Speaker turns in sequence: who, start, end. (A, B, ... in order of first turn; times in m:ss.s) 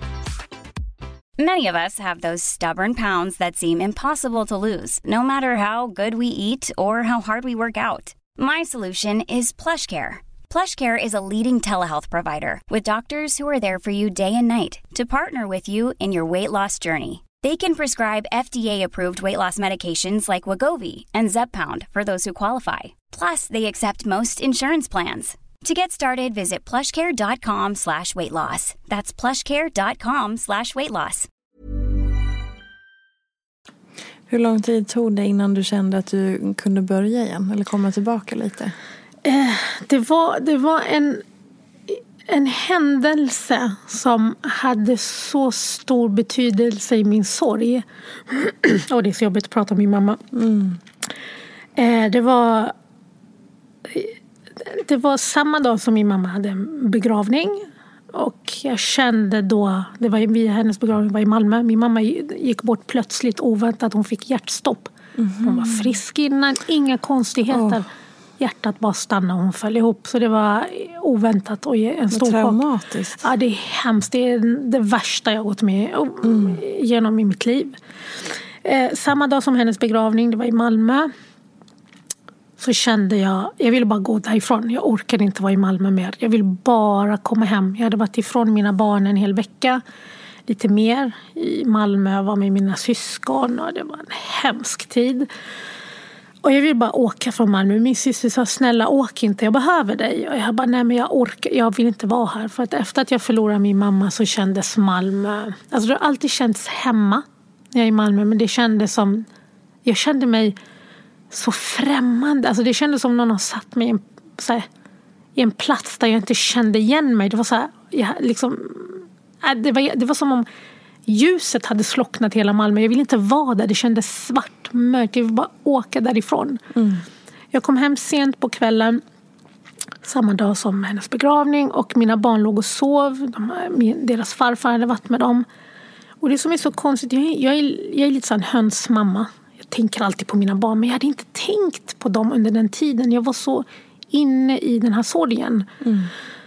0:01.4-0:31.3 A
0:34.3-0:38.7 B
0:39.2-0:41.2 C
0:41.9-0:50.2 C
0:50.3-0:50.8 B
0:51.8-0:52.7 C
0:53.8-1:07.9 C
1:05.2-1:05.9 B
1:07.5-1:07.8 B
1:08.4-1:12.6 C
1:12.1-1:13.3 B
1:13.2-1:17.8 C
1:16.2-1:16.6 B
1:18.6-1:21.1 C
1:22.6-1:29.8 C
1:30.5-1:35.3 C
1:36.4-1:49.2 C
1:49.8-1:50.6 C
1:51.3-1:54.7 C
1:55.4-2:00.4 C
2:01.1-2:06.6 C
2:06.7-2:07.0 B
2:07.5-2:09.0 C
2:10.0-2:15.4 C
2:16.2-2:25.7 C
2:25.8-2:26.1 B